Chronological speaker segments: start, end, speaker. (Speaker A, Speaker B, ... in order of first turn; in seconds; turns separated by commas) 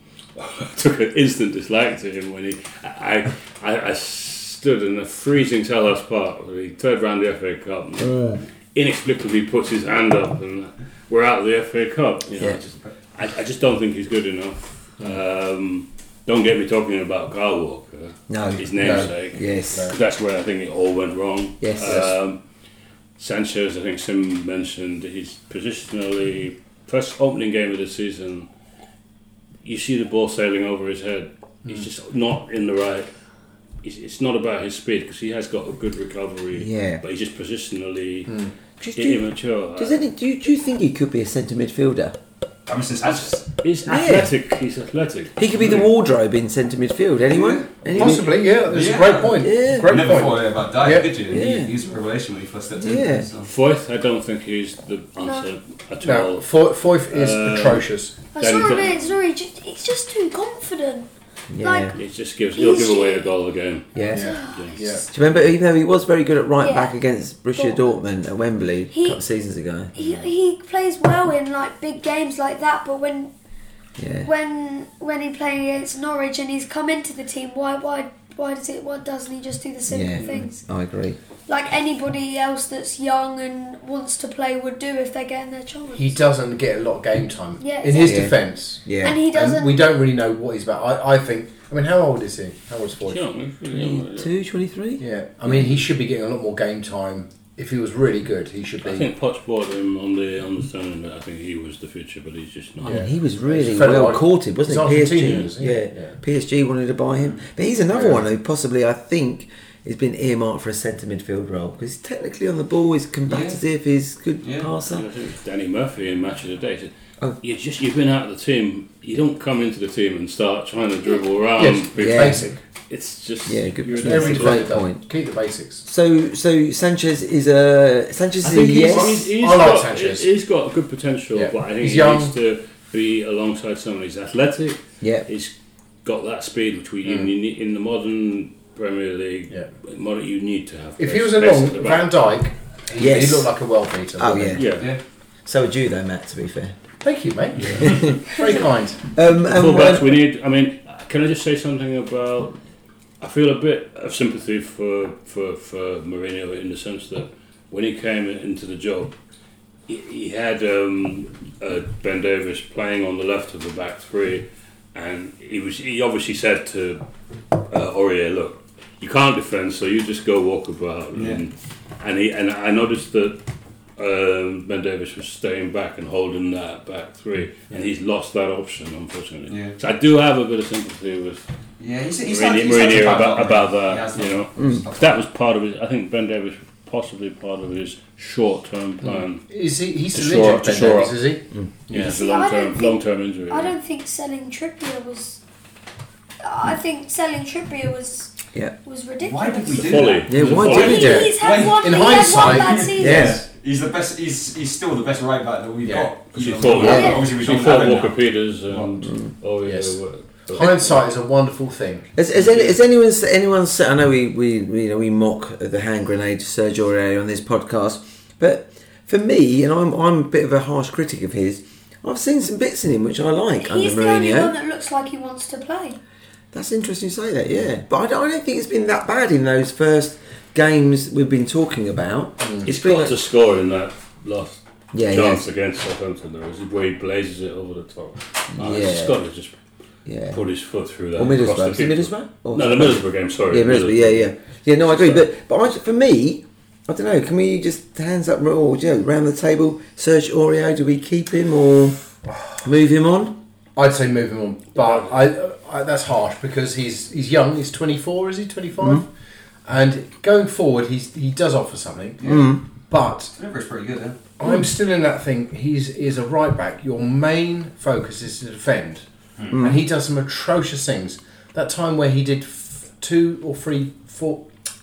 Speaker A: 0.3-22.4, Speaker B: 12.4-12.9, Speaker C: 18.3-19.9, Speaker D: 18.8-19.1, Speaker C: 21.6-22.1, Speaker A: 23.2-28.5, Speaker A: 29.6-33.1, Speaker A: 33.8-38.4, Speaker C: 36.5-37.0, Speaker C: 38.8-39.2, Speaker A: 38.9-40.0, Speaker C: 39.8-42.1, Speaker B: 42.7-43.5, Speaker A: 43.4-45.5, Speaker C: 43.9-44.3, Speaker C: 45.4-48.3, Speaker B: 47.3-53.5, Speaker D: 47.9-51.1, Speaker C: 49.4-50.0, Speaker C: 51.3-51.7, Speaker C: 52.8-53.3, Speaker A: 53.4-59.1, Speaker E: 55.2-55.5, Speaker D: 56.0-58.1, Speaker E: 58.3-61.1, Speaker C: 61.5-62.0, Speaker E: 61.6-62.0, Speaker A: 61.9-64.8, Speaker E: 62.5-63.3, Speaker C: 63.9-64.3, Speaker D: 64.1-65.0, Speaker E: 64.1-64.6, Speaker C: 65.1-69.9, Speaker E: 66.6-66.9, Speaker E: 67.5-67.8, Speaker E: 68.9-69.2, Speaker E: 69.9-73.3, Speaker C: 74.0-74.3, Speaker E: 74.2-80.6, Speaker C: 79.9-81.2, Speaker E: 81.5-86.2, Speaker D: 85.9-93.2, Speaker E: 87.6-88.3, Speaker C: 88.0-89.2, Speaker E: 89.0-89.8, Speaker A: 93.0-94.3, Speaker C: 93.7-95.6, Speaker D: 95.0-99.1, Speaker A: 98.8-103.1, Speaker D: 102.8-106.1, Speaker C: 102.8-115.0, Speaker D: 107.9-108.2, Speaker B: 113.3-113.6, Speaker B: 114.4-114.7, Speaker A: 114.8-124.8, Speaker D: 121.6-122.6, Speaker C: 122.0-122.4, Speaker C: 123.5-125.0, Speaker D: 124.0-125.8, Speaker C: 125.8-129.2, Speaker A: 128.4-142.1, Speaker D: 128.5-130.3, Speaker D: 131.3-132.3, Speaker C: 135.0-135.2, Speaker D: 137.0-137.3, Speaker D: 141.0-144.7, Speaker C: 143.0-143.5, Speaker C: 144.2-144.7, Speaker A: 144.5-144.9, Speaker C: 145.4-146.7, Speaker D: 147.0-149.1, Speaker C: 149.1-150.1, Speaker A: 149.4-152.6, Speaker A: 153.2-159.1, Speaker A: 159.9-167.0, Speaker A: 167.6-173.4, Speaker B: 171.1-171.4, Speaker A: 174.0-181.4, Speaker B: 179.5-179.8, Speaker B: 181.8-185.2, Speaker A: 182.2-189.4, Speaker D: 189.2-192.1, Speaker A: 190.1-191.2, Speaker A: 191.9-193.7, Speaker E: 191.9-195.4, Speaker E: 196.4-203.4, Speaker B: 199.2-208.2, Speaker A: 199.7-201.2, Speaker C: 200.3-201.3, Speaker D: 200.8-203.3, Speaker C: 203.0-203.4, Speaker D: 205.8-206.1, Speaker A: 206.3-211.0, Speaker C: 206.8-207.1, Speaker E: 206.8-207.3, Speaker D: 209.6-212.1, Speaker C: 212.2-224.5, Speaker E: 223.6-226.0, Speaker C: 226.5-233.2, Speaker D: 232.4-232.7, Speaker A: 232.6-239.6, Speaker C: 234.9-235.4, Speaker C: 238.6-239.2, Speaker C: 240.1-240.4, Speaker A: 240.3-245.3, Speaker C: 241.2-252.0, Speaker C: 252.6-253.3, Speaker D: 253.8-259.1, Speaker A: 254.8-255.1, Speaker D: 259.6-263.3, Speaker B: 262.2-262.5, Speaker C: 262.2-262.6, Speaker B: 263.3-264.2, Speaker D: 264.4-274.5, Speaker C: 269.5-269.8